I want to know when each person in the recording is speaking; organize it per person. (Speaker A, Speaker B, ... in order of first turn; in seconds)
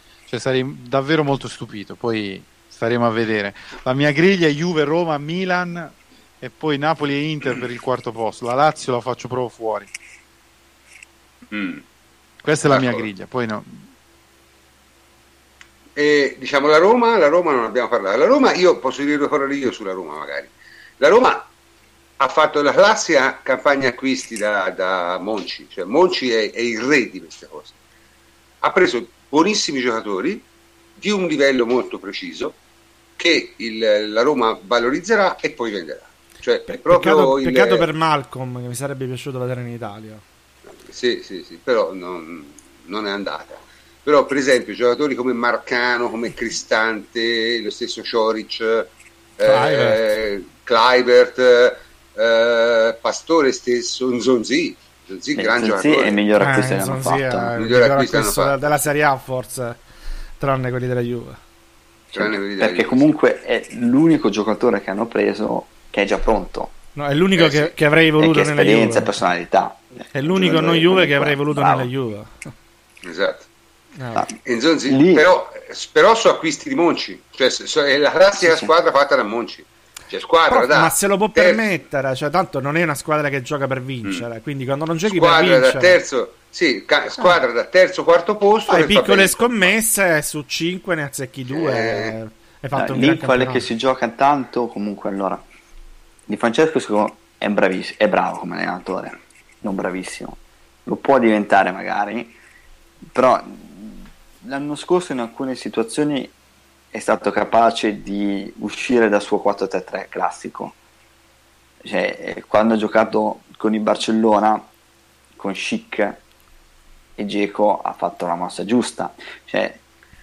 Speaker A: 0.3-9.9, 12.4-13.8
Speaker B: 11.5-11.8, 12.7-13.1, 15.9-21.5, 22.2-27.7, 28.6-30.4, 31.0-32.6, 33.2-37.9, 40.9-56.2, 57.5-58.5, 62.1-63.1, 67.4-67.7, 73.0-73.5, 74.4-81.8, 85.0-89.7, 91.5-92.2
Speaker C: 36.7-40.2, 49.4-50.2, 56.4-59.8, 60.4-61.4, 66.9-69.1, 70.1-72.5, 74.0-74.3, 80.5-86.0, 88.7-93.7
Speaker D: 55.4-57.5, 62.1-66.7, 68.2-71.9, 74.9-75.3, 78.4-78.7, 92.7-95.4, 96.3-102.3, 103.0-106.3, 106.9-110.7, 111.8-114.7, 115.3-116.2, 117.2-119.8